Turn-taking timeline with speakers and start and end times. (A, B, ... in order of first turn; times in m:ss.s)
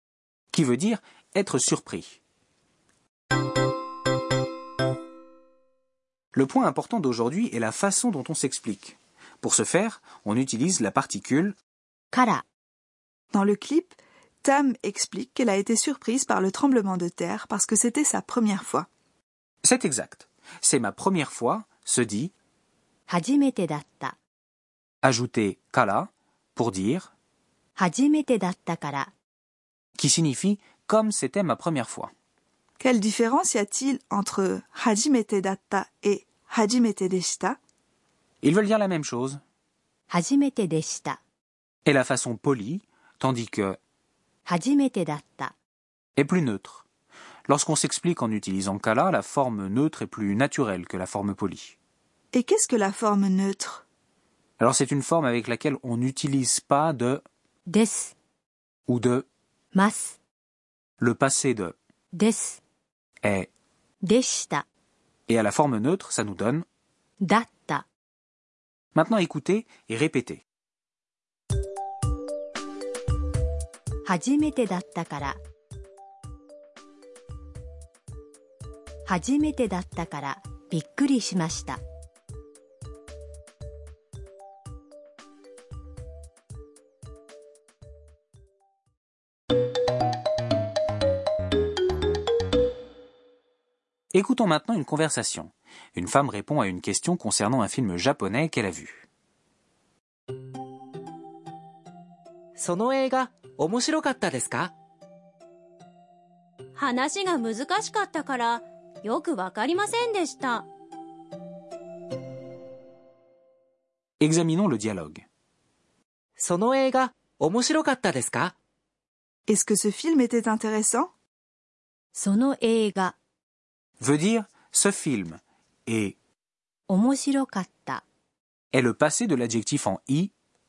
0:00.5-0:02.2 A
0:06.3-0:11.6 A
0:12.1-0:12.4 B
0:13.3-0:18.9 C
0:19.6-0:22.3 A
0:23.1-0:24.2 B
0:25.0-0:27.1 A
0:27.8-0:29.1 B
0:30.0-0:32.1 A
0:32.8-0:37.6 C
0:38.4-0:39.4 A
0:40.1-0:41.2 B
0:41.8-0:43.8 A
0:44.4-0:45.5 B
0:46.2-0:46.8 A
0:47.5-0:51.8 A
0:52.3-0:53.8 C
0:54.6-0:57.2 A
0:57.7-0:58.1 B
0:58.9-0:59.2 A
0:59.7-1:00.2 B
1:01.0-1:01.8 A
1:02.1-1:02.6 B
1:03.2-1:03.5 A
1:04.0-1:04.6 B
1:05.3-1:06.6 A
1:07.2-1:07.8 B
1:08.9-1:10.4 A
1:14.0-1:15.4 B
1:19.0-1:21.8 B
1:34.1-1:39.0 A
1:42.6-1:44.7 D
1:46.8-1:50.6 E
1:54.2-1:55.2 A
1:56.4-1:58.5 D
1:59.5-2:01.1 C
2:02.1-2:03.1 B
2:04.0-2:06.2 A
2:06.9-2:08.0 B
2:08.7-2:10.3 A